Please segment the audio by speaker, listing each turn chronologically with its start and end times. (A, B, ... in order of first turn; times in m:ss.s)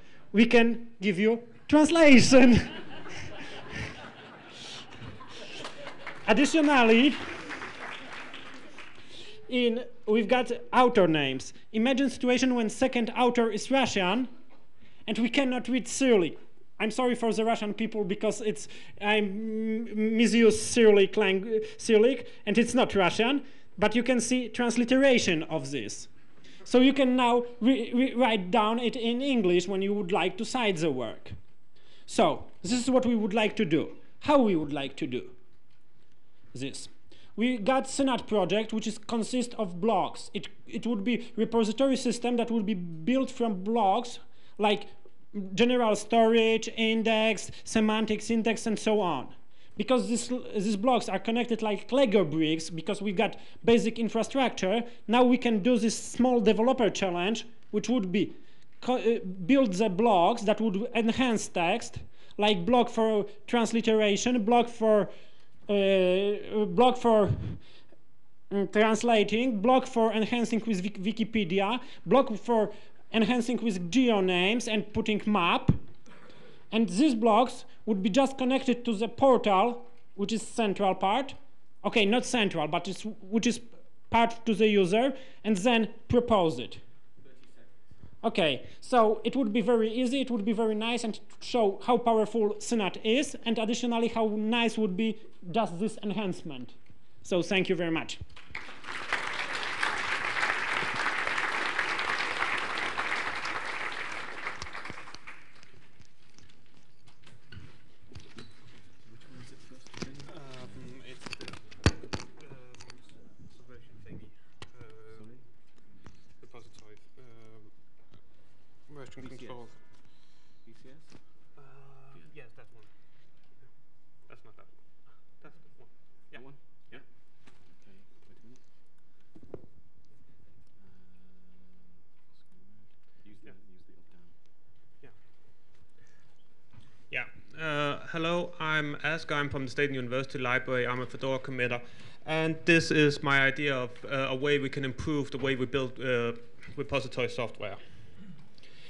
0:00.3-0:03.0 A
0:06.2-0:07.4 A
0:09.5-0:14.3 A
0:15.0-0:26.1 A
0:26.6-0:31.4 A
0:32.1-0:35.3 A
0:36.5-1:05.1 A
1:05.7-1:07.6 A
1:08.5-1:15.8 A
1:16.7-1:26.8 A
1:28.2-1:38.2 A
1:49.0-1:50.9 B
1:50.2-1:51.8 C
1:52.4-1:55.3 C
1:55.1-1:55.4 B
1:56.4-1:57.8 C
1:58.9-1:59.8 C
1:59.2-1:59.8 B
2:00.6-2:01.2 B
2:01.6-2:02.9 C
2:04.3-2:04.8 C
2:05.4-2:07.0 C
2:06.3-2:07.0 B
2:07.6-2:08.6 B
2:10.8-2:14.4 B
2:17.1-2:28.1 C